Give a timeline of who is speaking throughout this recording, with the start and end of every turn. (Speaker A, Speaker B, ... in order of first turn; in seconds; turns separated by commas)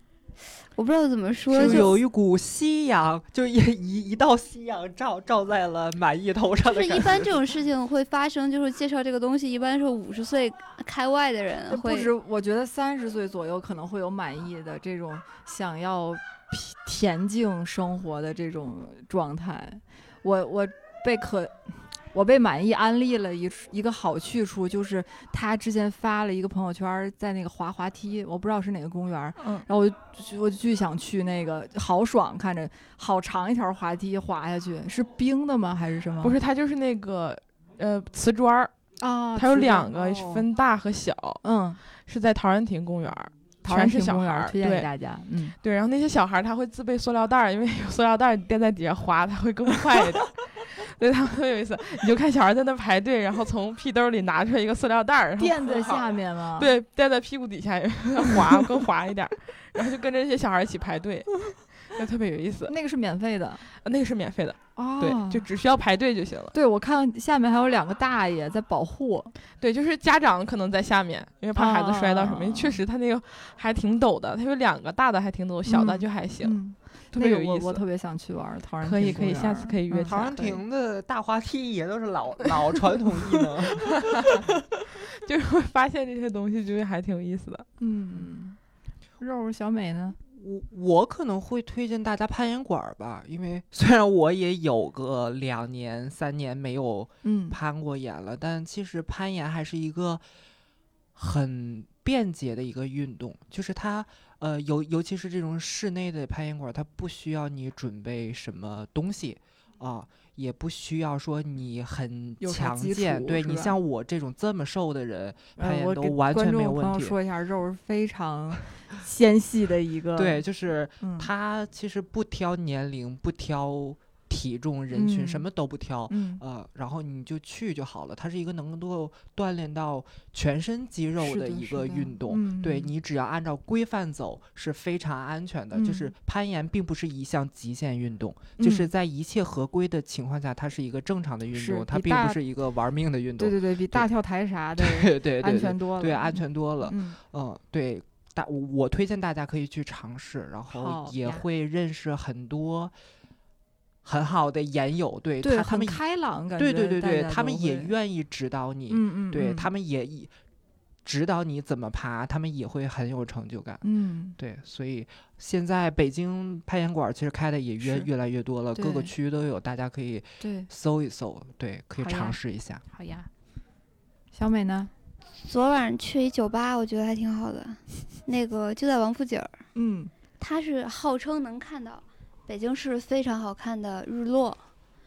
Speaker A: 0.7-2.0, Speaker B: 1.5-7.3, Speaker C: 1.5-1.9, Speaker A: 6.7-12.1, Speaker C: 11.7-36.4, Speaker D: 36.2-38.7, Speaker C: 39.0-39.9, Speaker D: 39.4-41.4, Speaker B: 39.9-40.5, Speaker C: 41.4-41.8, Speaker D: 42.0-44.9, Speaker C: 43.6-45.5, Speaker D: 45.6-62.7, Speaker C: 55.4-56.7, Speaker C: 62.7-63.7, Speaker D: 63.7-66.5, Speaker C: 64.8-65.5, Speaker C: 66.5-69.3, Speaker D: 69.5-76.6, Speaker C: 71.5-72.8, Speaker C: 75.7-80.6, Speaker D: 77.1-77.8, Speaker D: 78.8-80.3, Speaker B: 79.9-84.0, Speaker D: 84.1-84.4, Speaker D: 85.1-87.7, Speaker C: 87.8-88.6, Speaker C: 89.2-90.2, Speaker B: 90.3-100.2, Speaker C: 97.2-97.6, Speaker B: 101.1-117.2, Speaker C: 112.4-113.8, Speaker C: 115.6-120.4, Speaker B: 120.2-144.1, Speaker C: 121.0-121.3, Speaker C: 124.9-125.5, Speaker C: 126.1-126.4, Speaker C: 131.2-132.9, Speaker C: 135.7-136.1, Speaker C: 138.6-138.9, Speaker C: 141.5-142.4, Speaker C: 143.4-147.2, Speaker B: 144.8-152.9, Speaker C: 150.7-151.4, Speaker B: 154.0-156.0, Speaker C: 155.4-157.9, Speaker B: 156.6-160.3, Speaker C: 158.9-159.7, Speaker B: 161.0-163.8, Speaker C: 163.8-164.4, Speaker B: 164.4-172.8, Speaker C: 167.8-168.1, Speaker C: 168.7-169.1, Speaker C: 170.4-170.7, Speaker C: 172.0-173.3, Speaker C: 174.3-174.9, Speaker A: 175.4-179.6, Speaker C: 179.7-180.1, Speaker A: 180.4-184.6